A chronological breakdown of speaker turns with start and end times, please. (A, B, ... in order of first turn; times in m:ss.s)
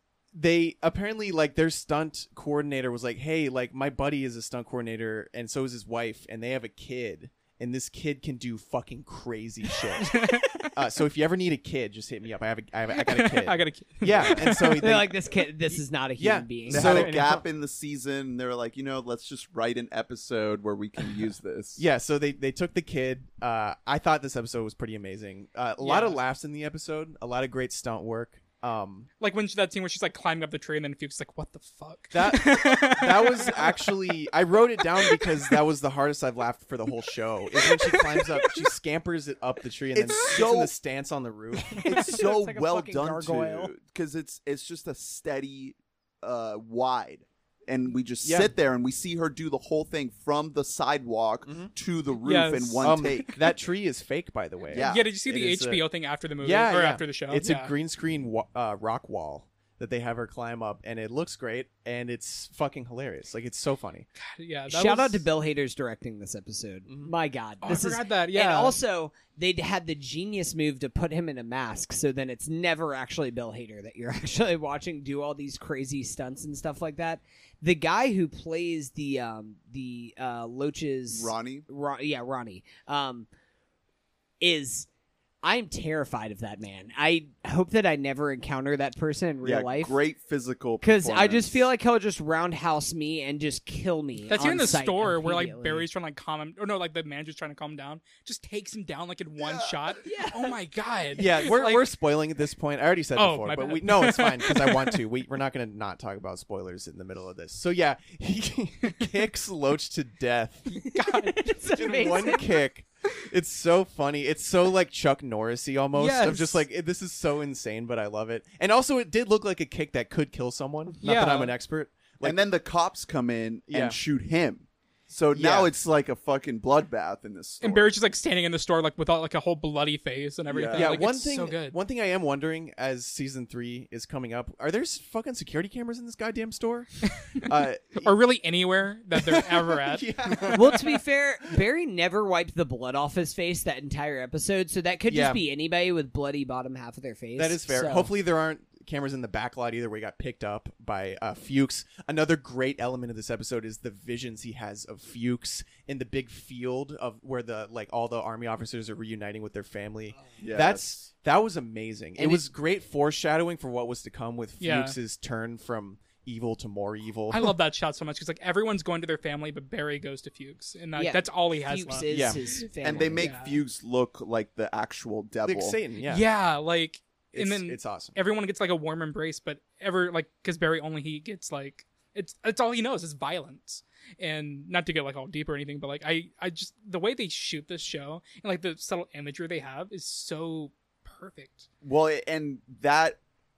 0:00.3-0:15.2 A
0:10.0-0:10.7 B
0:13.0-0:14.8 B
0:14.8-0:17.4 C
0:16.2-0:17.3 A
0:16.7-0:21.8 D
0:21.8-0:29.1 A
0:25.8-0:26.2 B
0:29.2-0:34.1 B
0:32.1-0:41.9 A
0:35.0-0:35.5 B
0:37.6-0:38.6 B
0:40.0-0:40.7 D
0:41.8-0:53.3 D
0:41.9-0:43.7 C
0:48.2-0:48.5 A
0:52.2-0:53.4 B
0:52.8-0:55.8 A
0:54.7-0:55.1 D
0:54.7-0:57.7 B
0:56.4-1:04.1 A
1:04.2-1:05.3 B
1:04.7-1:23.3 C
1:07.6-1:08.8 B
1:21.1-1:21.7 D
1:24.4-1:24.9 C
1:25.4-1:30.0 C
1:29.4-1:31.7 D
1:30.8-1:35.9 C
1:34.3-1:41.9 B
1:39.4-1:40.0 D
1:40.0-1:40.5 C
1:41.1-1:50.8 A
1:43.2-1:45.0 B
1:50.8-1:52.5 C
1:50.8-1:52.4 B
1:51.8-2:02.4 A
1:56.0-1:56.6 B
2:01.0-2:01.5 B
2:02.2-2:07.9 D
2:03.7-2:04.0 A
2:05.3-2:05.7 A
2:07.6-2:11.8 B
2:10.5-2:11.0 D
2:10.7-2:18.2 A
2:17.2-2:17.5 B
2:18.0-2:20.5 B
2:19.1-2:21.0 A
2:20.5-2:28.1 C
2:25.1-2:25.4 A
2:27.4-2:47.5 A
2:40.4-2:41.0 D
2:42.2-2:42.5 C
2:44.6-2:45.0 B
2:47.3-2:52.6 B
2:51.0-2:53.3 C
2:52.1-2:52.4 A
2:52.8-2:55.8 D
2:53.2-2:53.6 B
2:55.4-2:56.3 A
2:56.0-3:11.7 B
2:57.3-2:58.2 A
3:11.8-3:13.2 D